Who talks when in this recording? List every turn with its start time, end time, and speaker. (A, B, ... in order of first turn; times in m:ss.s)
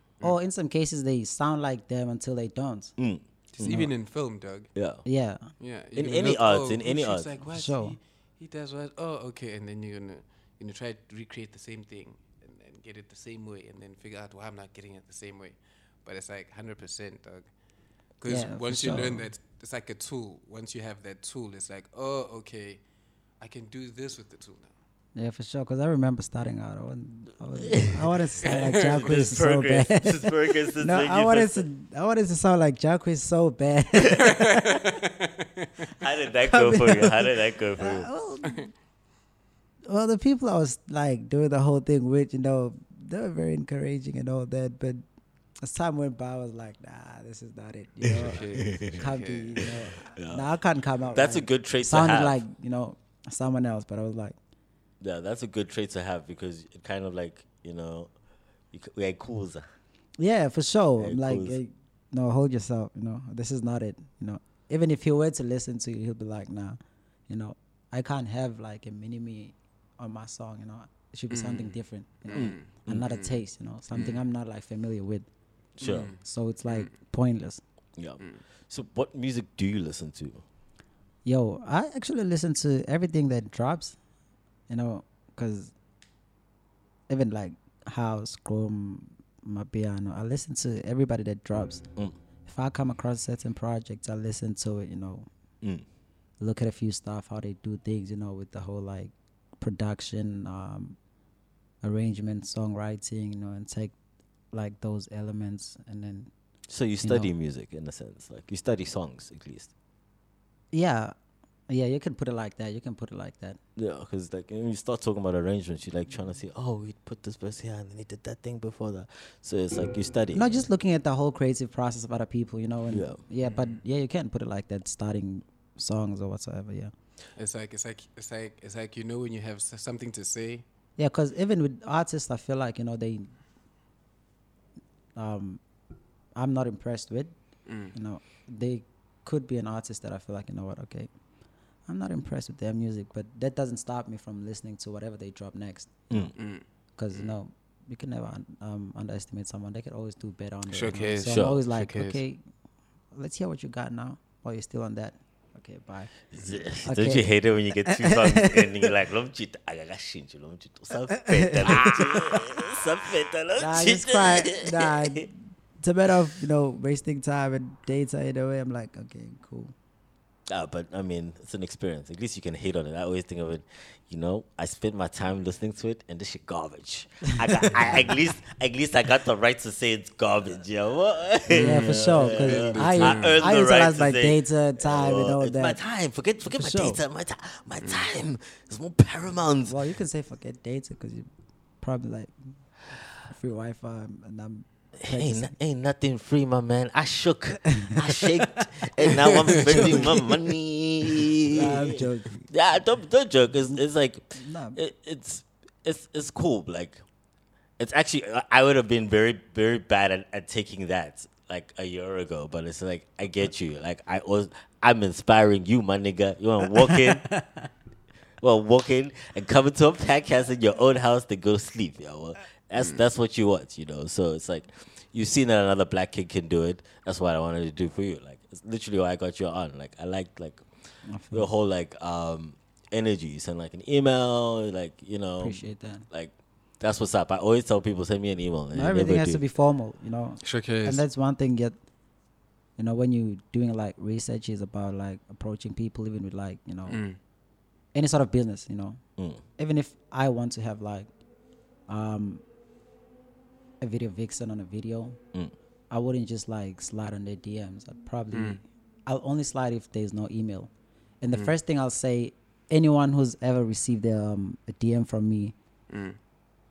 0:00.2-0:03.0 A
0:03.0-0:03.9 B
0:03.5-0:04.7 C
0:04.8-0:05.0 B
0:05.1-0:05.5 A
0:05.6-0:17.5 C
0:06.0-0:07.3 B
0:07.5-0:08.0 A
0:18.2-0:22.8 C
0:18.3-0:19.3 A
0:23.4-0:24.7 C
0:25.2-0:34.8 A
0:27.7-0:31.6 B
0:28.4-0:29.0 C
0:34.1-0:35.7 C
0:35.9-0:38.1 B
0:36.4-0:38.7 A
0:39.9-0:45.0 A
0:45.6-0:54.4 A
0:48.0-0:50.5 B
0:48.1-0:49.7 C
0:51.1-0:52.4 B
0:55.0-0:58.1 B
0:58.7-0:59.6 B
1:00.2-1:15.3 A
1:01.0-1:01.6 B
1:11.3-1:14.2 C
1:12.3-1:13.0 B
1:15.8-1:16.1 B
1:15.8-1:16.9 C
1:15.9-1:17.6 A
1:18.0-1:20.4 B
1:21.2-1:24.0 A
1:24.7-1:25.7 A
1:27.1-1:31.8 A
1:32.5-1:35.3 A
1:36.4-1:41.0 A
1:41.8-1:44.0 A
1:44.5-1:46.3 A
1:46.7-1:49.7 B
1:47.0-1:47.3 A
1:50.7-1:51.1 A
1:51.7-1:53.6 A
1:53.8-2:00.7 B
2:00.3-2:06.9 A
2:02.9-2:03.2 B
2:03.4-2:03.8 C
2:07.4-2:10.6 C
2:11.0-2:13.3 A
2:15.2-2:15.6 A
2:16.4-2:17.4 A
2:17.7-2:17.9 C
2:17.9-2:21.1 A
2:21.9-2:26.3 A
2:26.4-2:27.3 C
2:27.0-2:32.4 A
2:30.7-2:32.2 C
2:31.3-2:31.6 B
2:33.1-2:36.1 A
2:36.3-2:45.3 B
2:36.8-2:37.3 A
2:37.9-2:38.9 A
2:41.1-2:42.6 A
2:43.6-2:49.7 A
2:50.5-3:09.8 B
3:01.5-3:03.5 C
3:01.5-3:05.8 A
3:06.5-3:07.0 A
3:07.8-3:08.1 C
3:09.7-3:11.3 A
3:11.8-3:12.3 A
3:13.3-3:15.5 A
3:15.0-3:27.0 B
3:17.8-3:20.4 A
3:19.3-3:20.1 C
3:21.4-3:22.5 A
3:24.4-3:24.8 A
3:27.8-3:37.3 B
3:36.8-3:37.7 A
3:38.4-3:50.6 B
3:42.8-3:43.0 C
3:51.1-3:51.5 A
3:51.3-3:59.4 B
3:55.4-3:56.1 A
3:58.7-4:01.8 A
4:00.4-4:01.0 C
4:02.8-4:07.0 A
4:06.9-4:07.2 C
4:07.9-4:09.0 A
4:09.6-4:11.1 A
4:11.9-4:12.4 A
4:13.8-4:15.2 A
4:15.9-4:20.7 A
4:18.3-4:18.6 C
4:21.2-4:25.6 A
4:25.9-4:26.2 C